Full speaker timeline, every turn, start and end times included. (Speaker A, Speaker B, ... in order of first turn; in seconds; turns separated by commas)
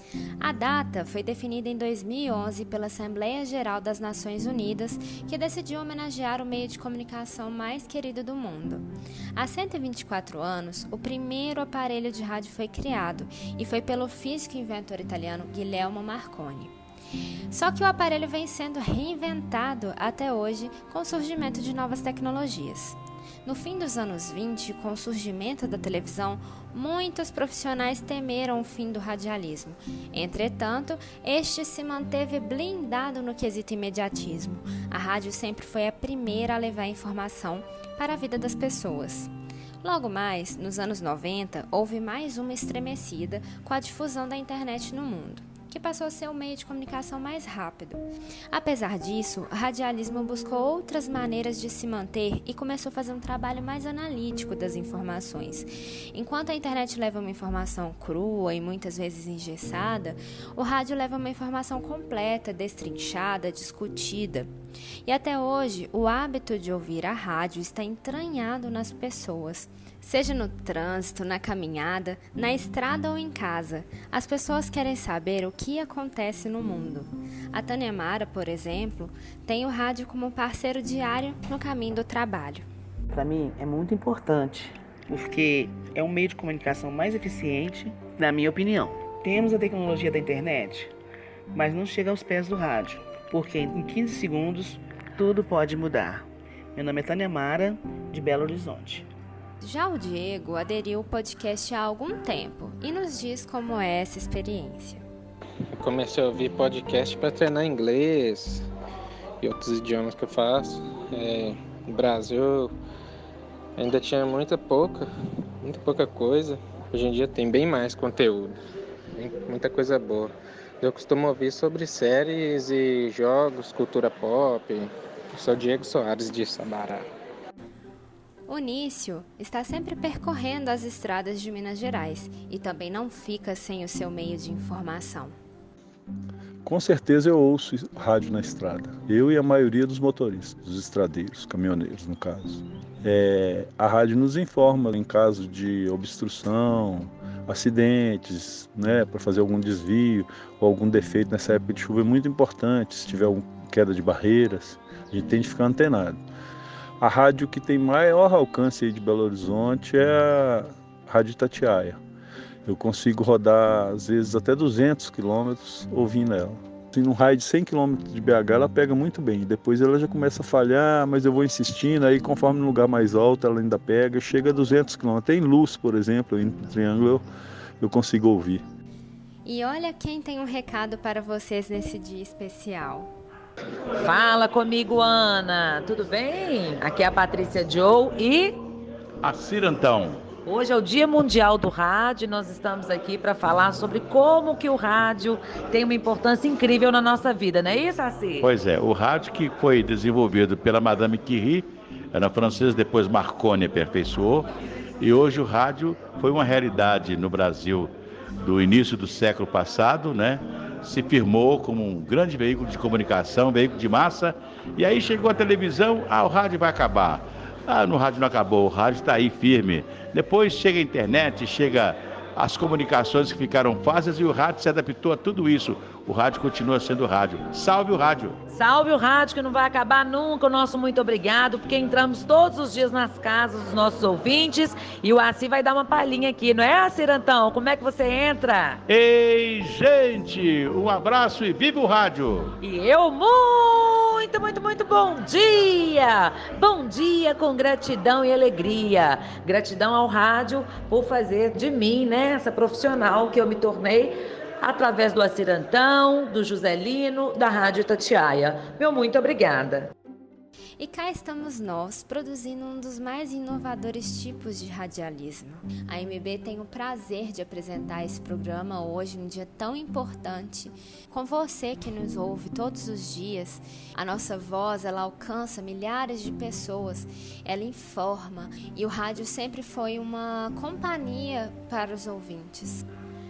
Speaker A: 0.4-16.7, Speaker A: 17.5-39.3, Speaker A: 39.8-64.5, Speaker A: 65.0-82.7, Speaker B: 83.1-90.9, Speaker B: 91.5-99.1, Speaker A: 99.6-105.1, Speaker C: 105.7-108.7, Speaker C: 109.4-112.7, Speaker C: 113.8-115.1, Speaker C: 115.6-118.6, Speaker C: 119.2-127.1, Speaker A: 128.5-135.3, Speaker D: 136.7-156.2, Speaker D: 157.0-162.0, Speaker D: 162.7-177.2, Speaker D: 177.8-178.6, Speaker A: 179.4-183.1, Speaker E: 184.0-188.6, Speaker F: 189.2-190.2, Speaker E: 190.5-198.5, Speaker F: 198.4-204.5, Speaker F: 205.0-207.9, Speaker F: 208.4-228.4, Speaker E: 228.5-238.8, Speaker F: 238.9-242.5, Speaker E: 242.6-259.9, Speaker A: 260.8-282.9